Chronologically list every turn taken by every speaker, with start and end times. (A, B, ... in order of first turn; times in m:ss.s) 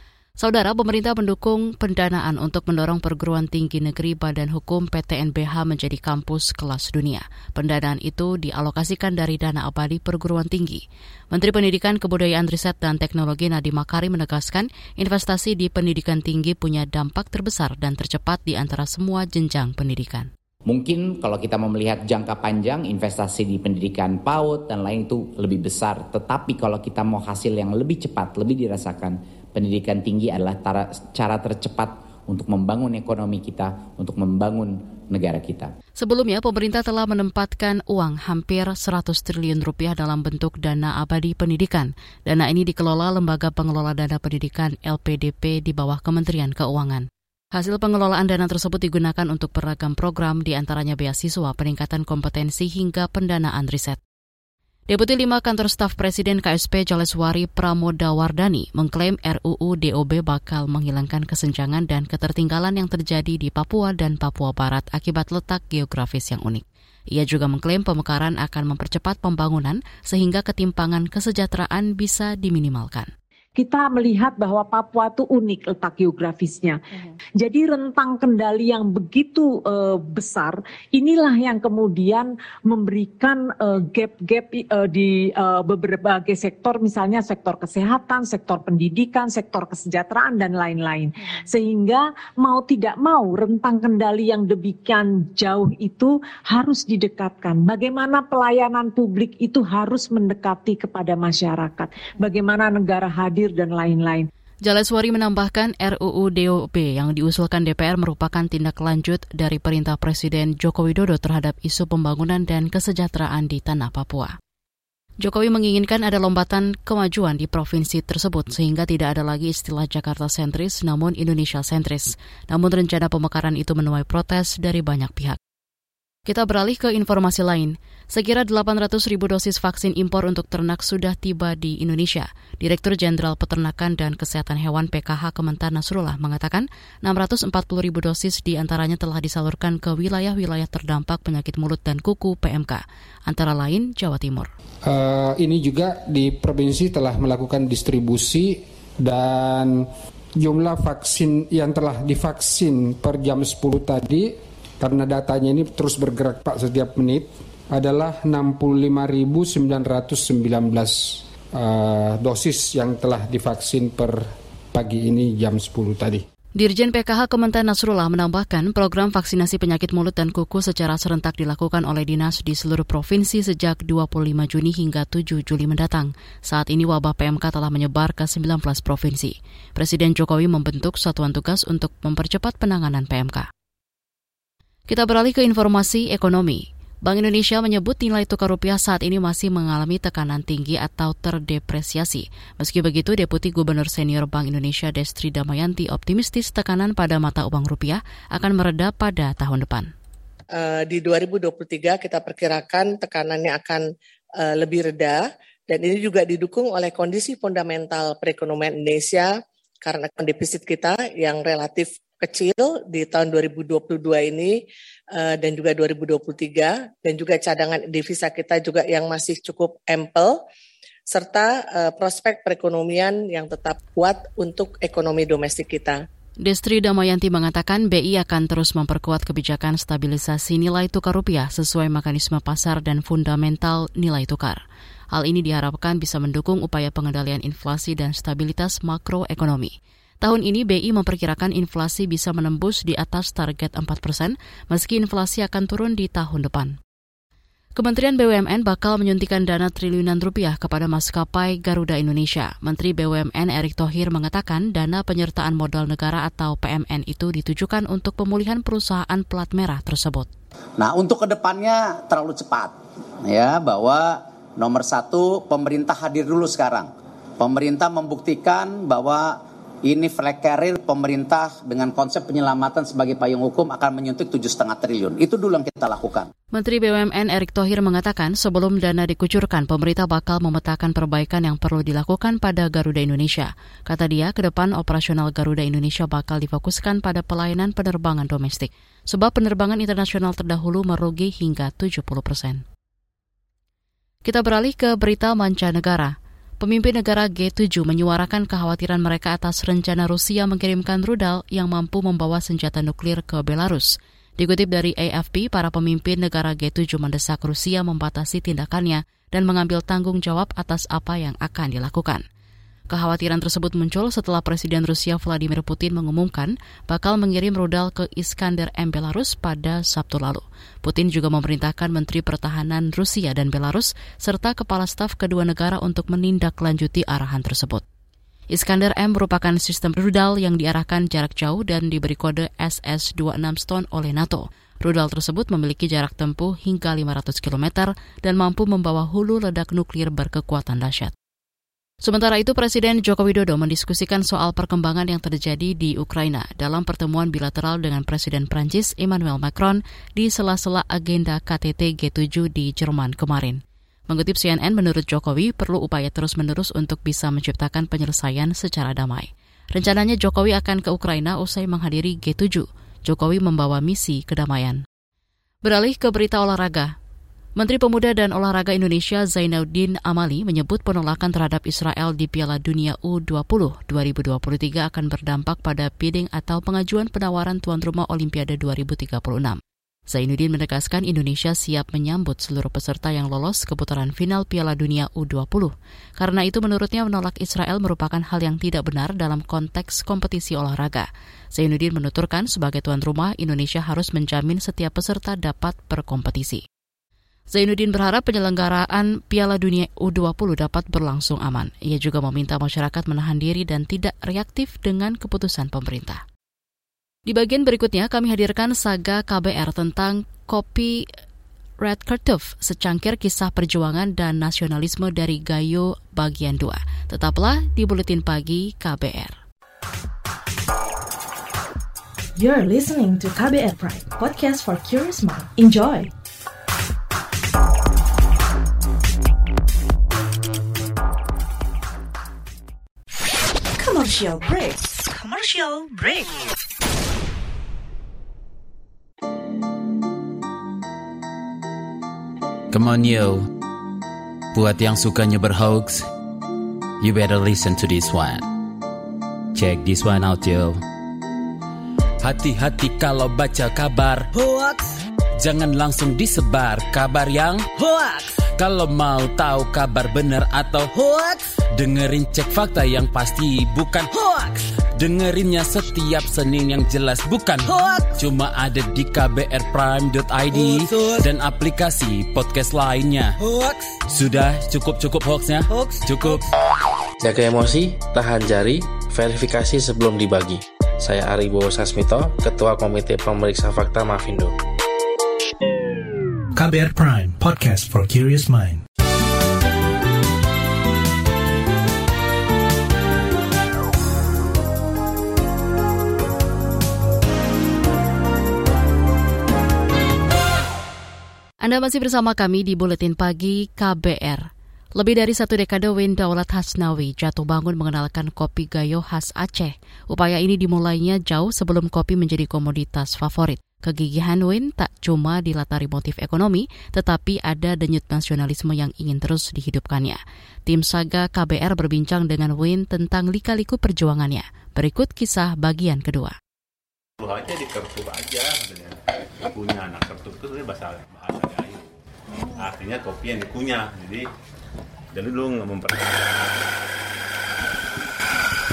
0:00.4-0:20.3 A
0:20.7-0:35.7 B
0:36.0-0:54.0 A
0:54.9-1:13.1 A
1:13.6-1:16.8 C
1:17.4-1:44.3 C
1:44.6-1:54.3 A
1:55.2-2:05.4 A
2:06.3-2:24.5 A
2:24.8-2:29.9 D
2:30.4-2:46.2 D
2:46.6-3:03.5 A
3:04.9-3:19.9 A
3:20.5-3:23.8 E
3:24.4-3:34.6 E
3:35.1-3:40.4 E
3:41.1-3:46.0 E
3:46.4-3:54.6 A
3:55.1-4:06.8 A
4:07.8-4:20.3 A
4:20.8-4:22.7 F
4:23.2-4:36.3 F
4:36.5-4:52.6 A
4:54.2-5:12.2 A
5:12.9-5:27.8 A
5:28.5-5:41.1 A
5:42.0-6:04.8 A
6:05.6-6:06.9 A
6:07.6-6:36.6 A
6:37.5-6:46.2 A
6:47.3-6:51.0 A
6:51.8-6:59.4 A
7:02.4-7:06.1 G
7:13.8-7:16.3 G
7:22.7-7:23.5 H
7:24.5-7:26.0 H
7:27.0-7:28.4 H
7:29.5-7:30.8 H
7:32.2-7:34.3 H
7:34.4-7:34.8 I
7:35.4-7:37.7 H
7:37.8-7:38.2 I
7:38.6-7:40.9 H
7:40.9-7:41.4 I
7:41.8-7:44.1 H
7:44.1-7:44.6 I
7:45.0-7:53.4 H
7:47.6-7:48.1 I
7:50.5-7:51.2 I
7:53.4-7:53.8 I
7:54.1-7:56.4 H
7:55.7-7:56.4 I
7:57.2-8:04.5 J
8:06.6-8:08.8 K
8:21.6-8:46.3 A
8:47.2-8:48.9 L
8:49.5-8:51.8 L
8:52.6-8:54.2 L
8:55.1-8:56.5 L